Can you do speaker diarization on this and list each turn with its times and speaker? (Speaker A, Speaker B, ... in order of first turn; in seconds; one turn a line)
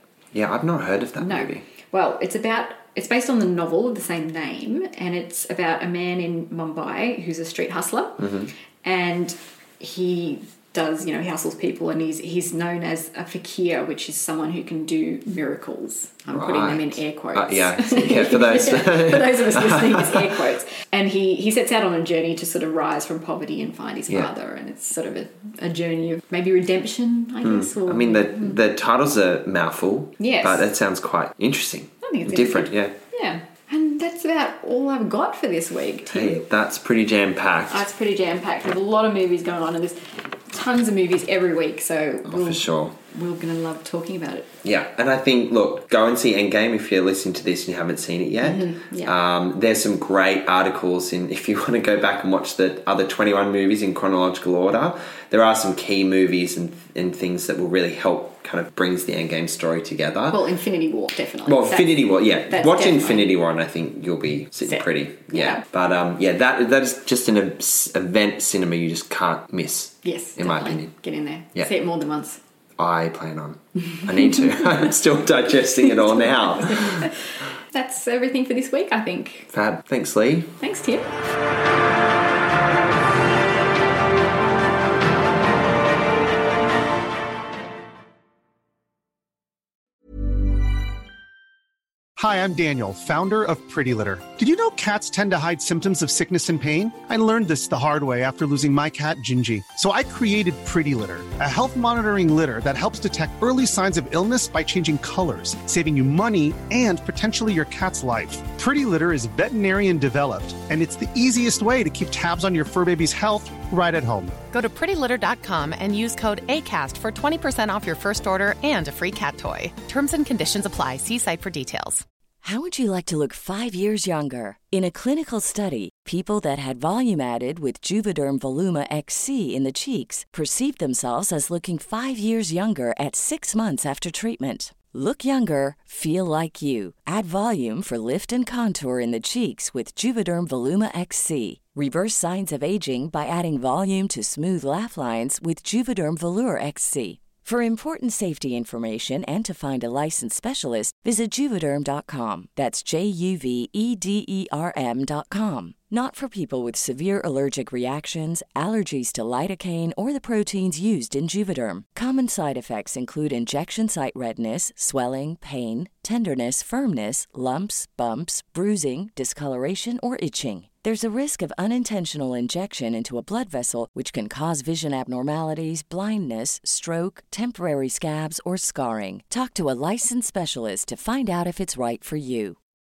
Speaker A: 0.3-1.6
Speaker B: 1.2-28.6
Speaker A: 8.2-8.5
Speaker A: 16.3-20.3
Speaker A: 27.4-32.9
Speaker B: 30.2-30.7
Speaker B: 32.0-36.5
Speaker A: 36.1-37.9
Speaker B: 37.7-44.5
Speaker A: 42.3-43.0
Speaker A: 44.6-60.4
Speaker B: 48.4-49.1
Speaker B: 60.3-63.3
Speaker A: 61.5-70.9
Speaker B: 64.7-65.6
Speaker B: 70.0-72.4
Speaker A: 72.8-77.1
Speaker B: 73.9-74.8
Speaker B: 75.8-79.5
Speaker A: 79.5-80.5
Speaker B: 80.6-81.1
Speaker C: 92.2-114.4
Speaker D: 114.5-122.0
Speaker E: 122.4-182.6